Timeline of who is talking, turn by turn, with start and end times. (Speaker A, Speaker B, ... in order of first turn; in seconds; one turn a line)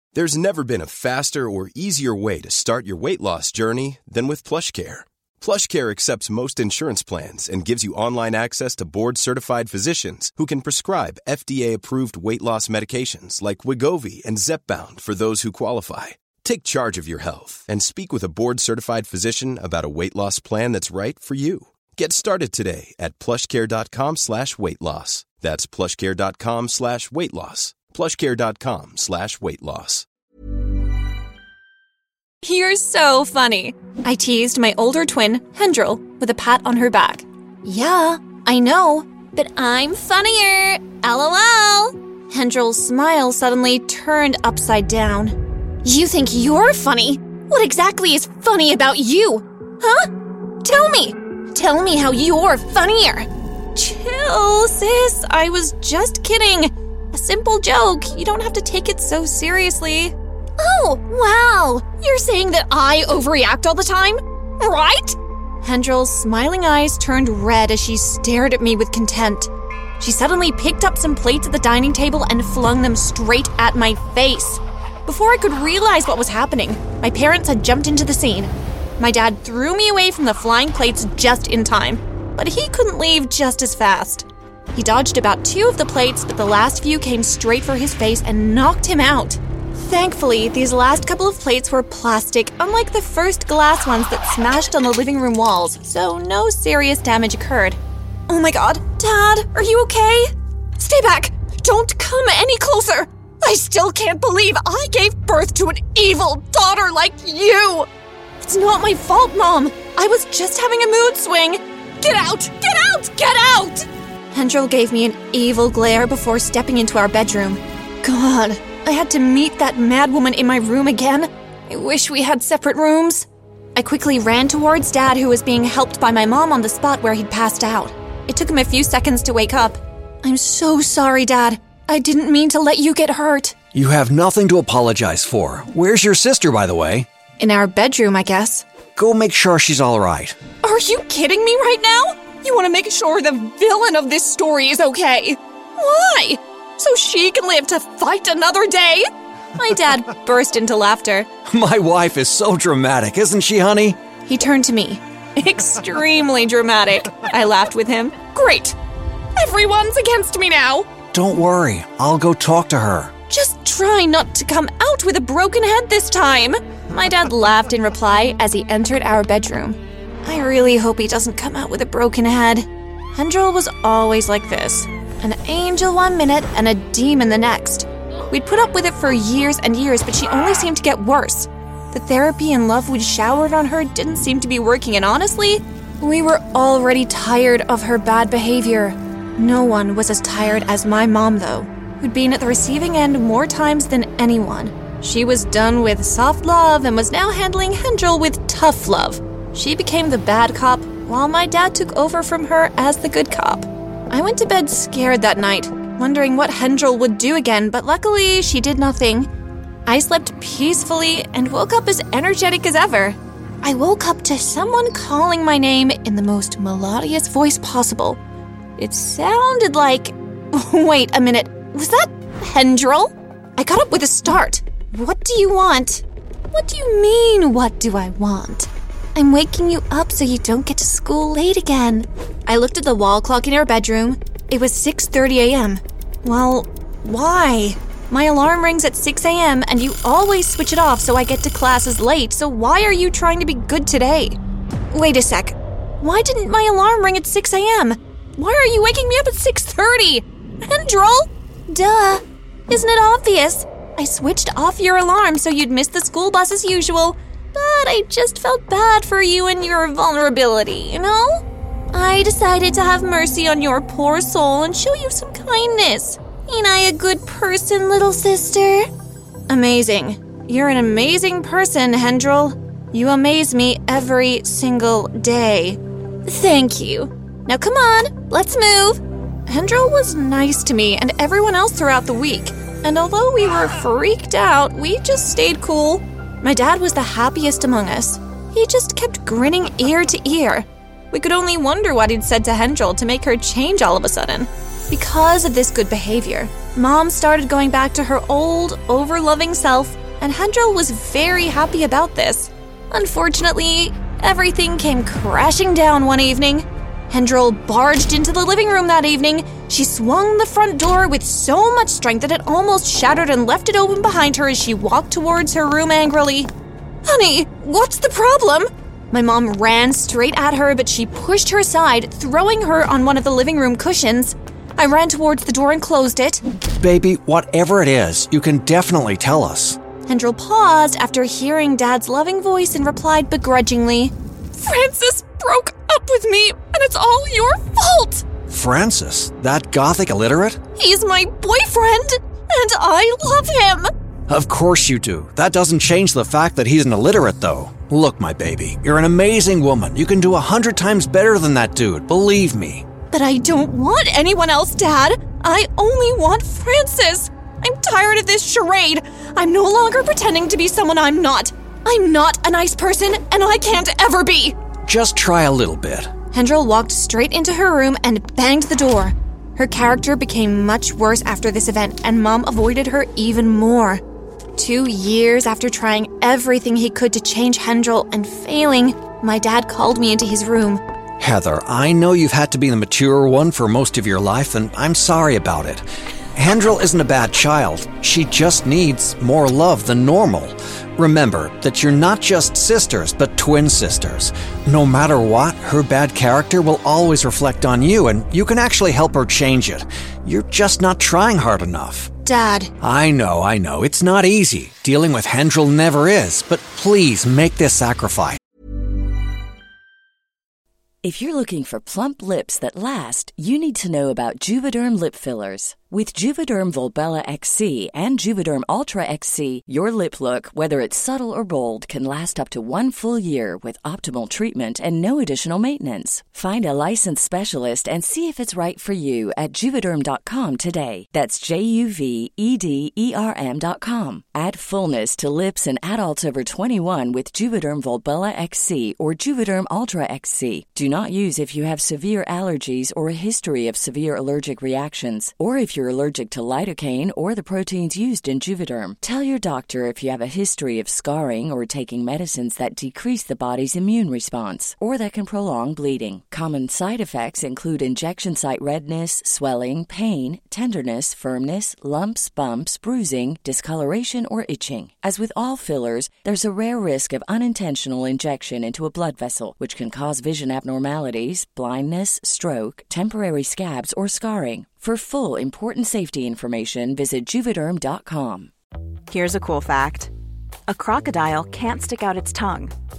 Speaker A: 0.1-30.1
Speaker B: 32.4-50.1
Speaker B: 50.6-107.9
Speaker B: 108.4-133.6
Speaker C: 133.7-137.1
Speaker B: 137.4-138.6
Speaker C: 138.9-140.3
Speaker B: 140.6-151.3
Speaker C: 151.4-154.0
Speaker B: 154.2-158.8
Speaker B: 159.3-160.9
Speaker C: 161.1-163.1
Speaker B: 163.3-209.3
Speaker B: 209.9-218.2
Speaker B: 218.8-244.4
Speaker B: 244.9-268.9
Speaker B: 269.5-316.5
Speaker B: 317.0-326.4
Speaker C: 326.8-329.8
Speaker B: 330.1-338.2
Speaker C: 338.5-340.6
Speaker B: 340.8-343.9
Speaker C: 344.3-352.9
Speaker B: 353.1-364.6
Speaker C: 364.9-366.1
Speaker B: 366.3-374.0
Speaker B: 374.6-380.8
Speaker C: 381.2-385.8
Speaker C: 386.3-402.1
Speaker B: 402.2-402.7
Speaker C: 402.8-408.4
Speaker D: 411.0-478.5
Speaker E: 479.1-480.1
Speaker E: 480.7-482.7